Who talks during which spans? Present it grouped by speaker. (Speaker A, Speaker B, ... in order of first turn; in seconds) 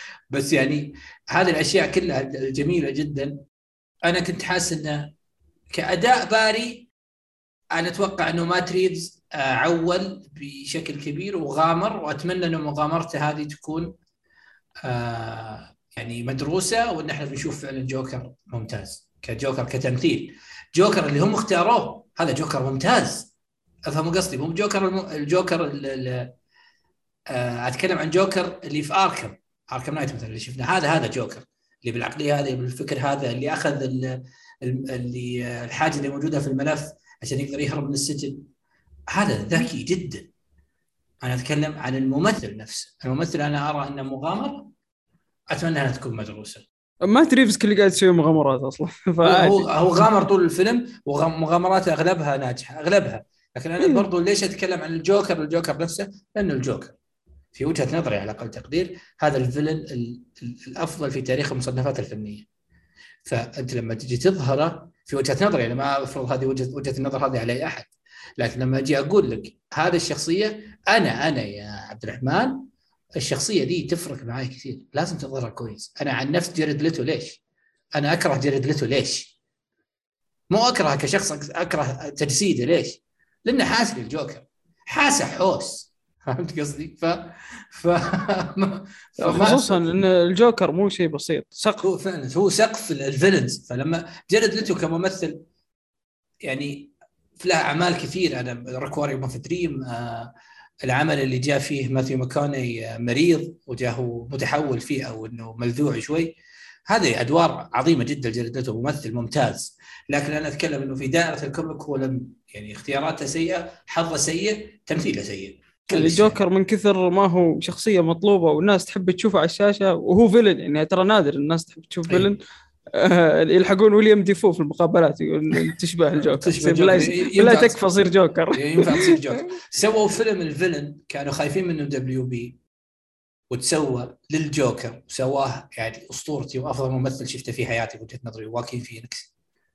Speaker A: 0.3-3.4, 4.1-5.1, 5.7-6.9, 7.8-13.9, 14.8-23.3, 23.9-26.3, 27.3-38.4, 39.1-40.3, 41.2-44.7, 45.5-46.7, 49.2-57.0, 57.5-62.5, 63.2-72.7, 73.2-77.4, 78.0-79.3, 80.5-90.0, 91.8-95.4, 96.5-100.3, 100.8-106.3, 106.9-116.4, 126.2-128.0, 128.5-132.6, 133.5-139.3
Speaker B: 47.0-49.7, 53.8-54.1, 89.2-91.8, 115.9-122.4, 122.9-129.4